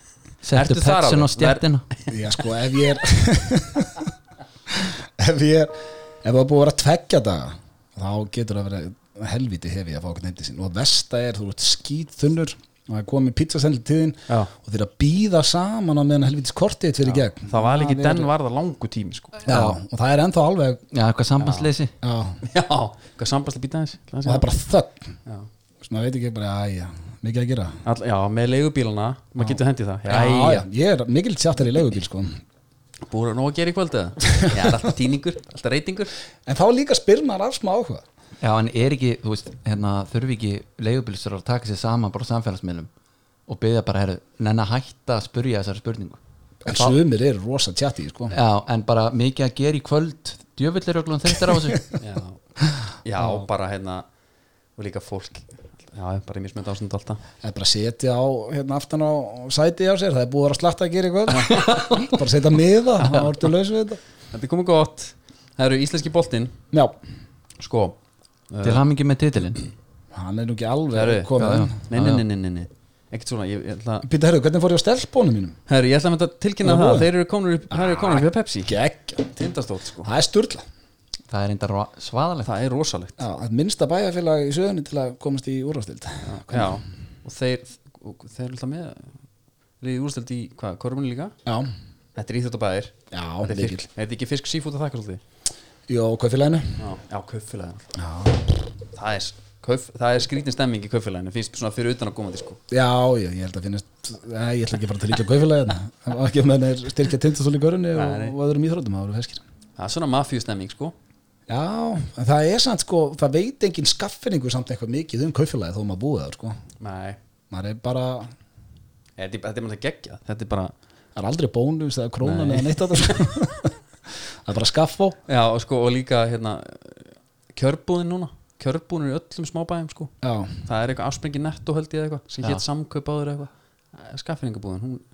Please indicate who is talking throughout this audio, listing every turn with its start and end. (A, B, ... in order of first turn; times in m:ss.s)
0:00.4-0:01.8 A
0:00.5-0:02.1 B
0:02.1-0:04.1 C
0:04.7-0:18.3 C
0:17.0-0:19.4 B
0:19.4-0:20.8 C
0:19.5-0:19.8 A
0:20.9-0:21.9 A
0:21.4-0:21.7 B
0:22.0-0:22.4 C
0:22.4-0:24.5 B
0:24.2-0:25.1 C
0:25.8-0:27.8 C
0:27.8-0:30.6 B
0:29.4-0:32.4 C
0:33.1-0:36.1 B
0:34.4-0:34.7 C
0:36.4-0:38.0 C
0:38.4-0:42.9 A
0:43.5-0:47.0 A
0:46.6-0:48.3 C
0:48.3-0:51.8 A
0:51.5-0:51.8 C
0:52.0-0:52.4 B
0:53.0-0:54.0 B
0:54.8-0:57.2 B
0:57.4-1:04.0 C
1:01.3-1:02.1 B
1:01.6-1:02.2 A
1:03.0-1:03.3 B
1:04.3-1:06.5 B
1:07.6-1:08.0 B
1:08.5-1:08.8 B
1:08.6-1:09.6 A
1:10.1-1:11.7 C
1:10.9-1:14.0 B
1:11.4-1:12.2 A
1:14.0-1:15.6 C
1:15.7-1:18.8 B
1:16.6-1:17.1 C
1:17.7-1:19.4 C
1:19.4-1:20.1 B
1:20.0-1:20.6 C
1:21.3-1:22.5 A
1:22.4-1:23.2 B
1:23.2-1:26.8 C
1:26.2-1:29.1 B
1:29.8-1:31.3 B
1:31.4-1:31.7 C
1:32.1-1:35.2 B
1:33.1-1:33.8 C
1:35.9-1:36.8 C
1:36.8-1:37.9 B
1:37.9-1:38.7 C
1:38.9-1:42.6 B
1:42.7-1:49.4 C
1:47.9-1:48.3 B
1:49.8-1:50.9 B
1:51.5-1:56.6 C
1:56.8-1:57.2 B
1:57.5-1:58.3 C
1:59.2-2:00.7 B
2:01.2-2:03.7 C
2:02.2-2:03.2 B
2:04.4-2:05.2 C
2:05.3-2:10.1 B
2:10.2-2:10.6 C
2:10.6-2:15.0 B